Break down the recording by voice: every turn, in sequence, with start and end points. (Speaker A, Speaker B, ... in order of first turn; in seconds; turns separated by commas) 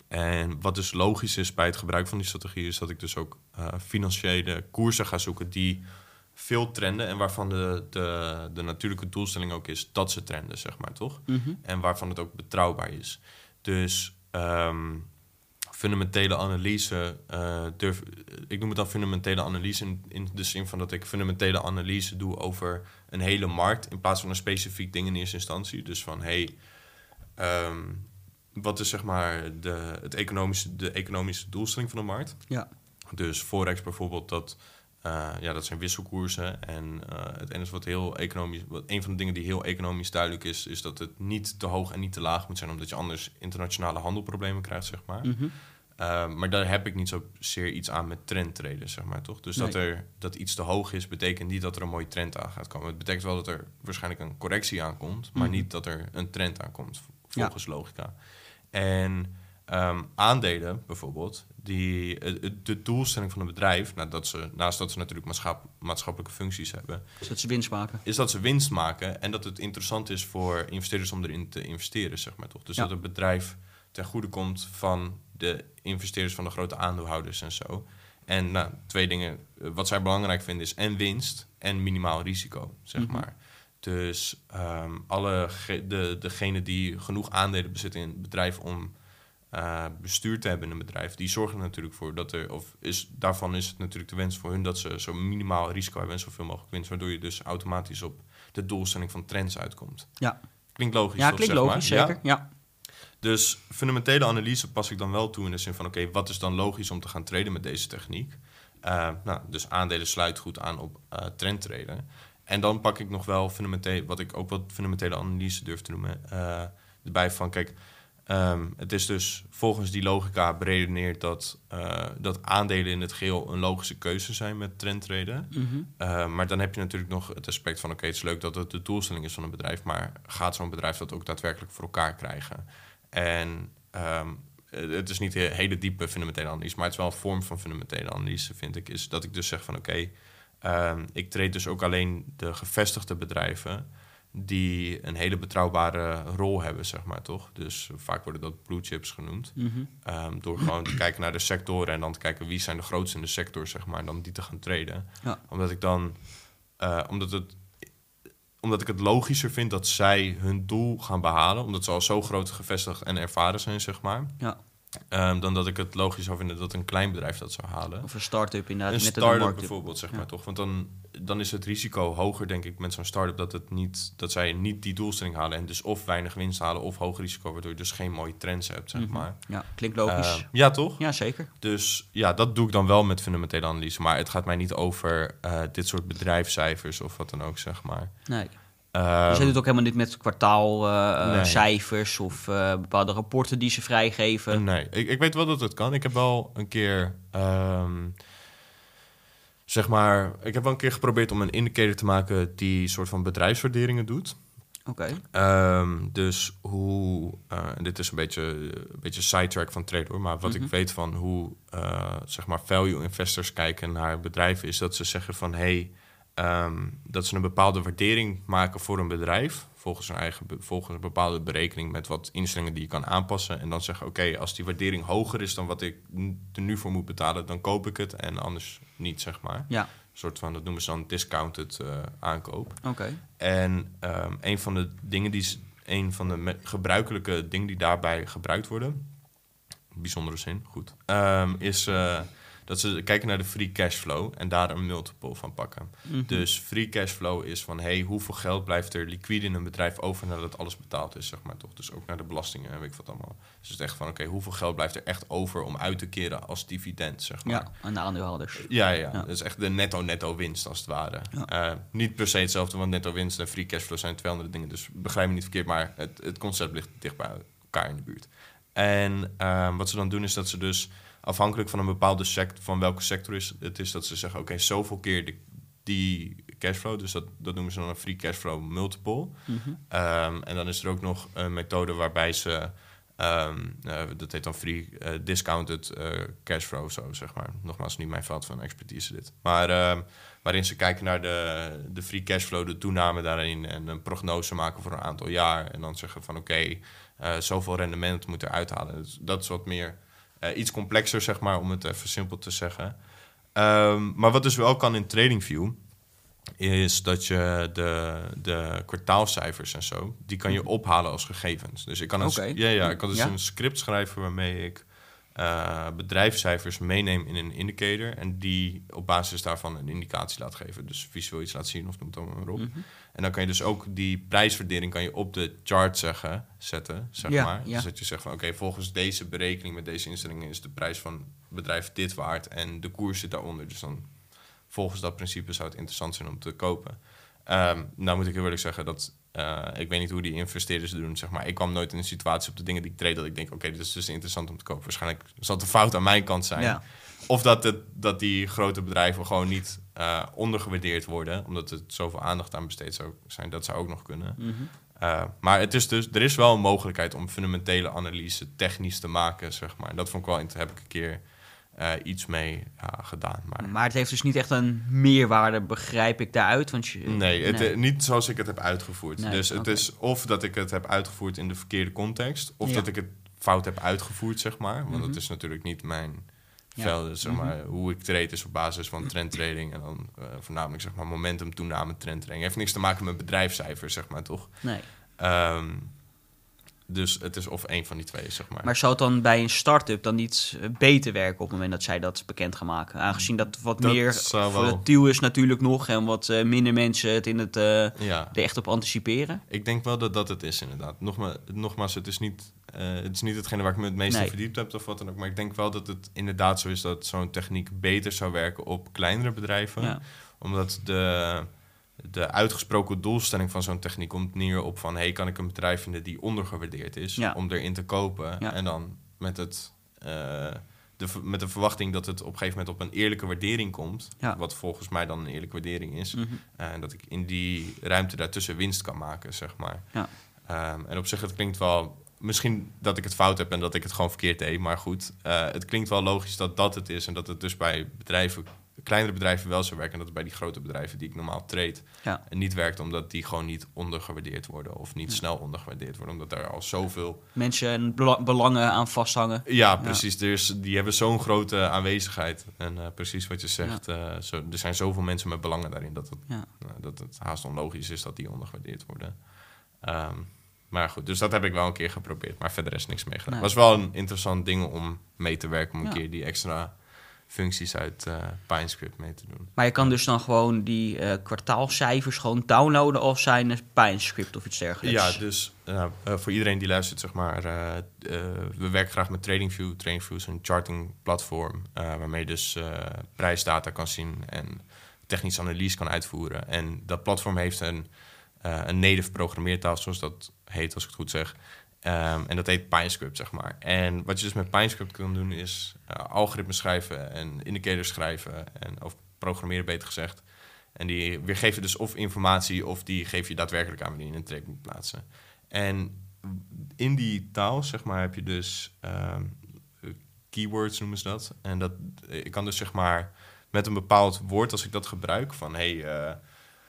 Speaker A: 0.1-15.2, Speaker B: 11.3-11.6, Speaker A: 15.7-26.7, Speaker A: 27.2-67.3, Speaker B: 45.2-45.5, Speaker B: 55.4-55.7, Speaker B: 67.2-68.0, Speaker A: 68.0-102.6, Speaker B: 83.0-83.3, Speaker B: 100.2-102.5, Speaker A: 103.2-189.6, Speaker B: 125.5-125.9, Speaker B: 149.6-149.9, Speaker B: 168.0-170.3, Speaker B: 178.9-181.5, Speaker B: 188.3-194.6, Speaker A: 191.2-191.9, Speaker A: 194.5-198.2, Speaker A: 199.7-257.8, Speaker B: 204.8-205.2, Speaker B: 210.4-210.7, Speaker B: 232.8-233.2, Speaker B: 246.1-246.5, Speaker B: 257.4-259.3, Speaker A: 258.6-305.9, Speaker B: 279.4-279.8, Speaker A: 306.6-363.7, Speaker B: 312.2-313.3, Speaker B: 322.6-322.8, Speaker B: 327.2-327.9, Speaker B: 346.6-346.8, Speaker B: 354.4-354.7, Speaker B: 363.6-367.8, Speaker A: 367.1-386.1, Speaker B: 369.2-369.9, Speaker B: 372.6-372.9, Speaker B: 374.9-375.2, Speaker B: 376.8-377.6, Speaker B: 384.6-384.9, Speaker A: 386.9-388.7, Speaker B: 388.6-399.4, Speaker A: 393.1-394.8, Speaker A: 397.9-398.4, Speaker A: 399.5-447.2, Speaker B: 404.1-404.3, Speaker B: 417.2-418.6, Speaker B: 426.1-426.4, Speaker B: 447.3-450.0, Speaker A: 449.4-470.0, Speaker B: 463.3-463.6, Speaker B: 469.6-475.2, Speaker A: 474.8-516.4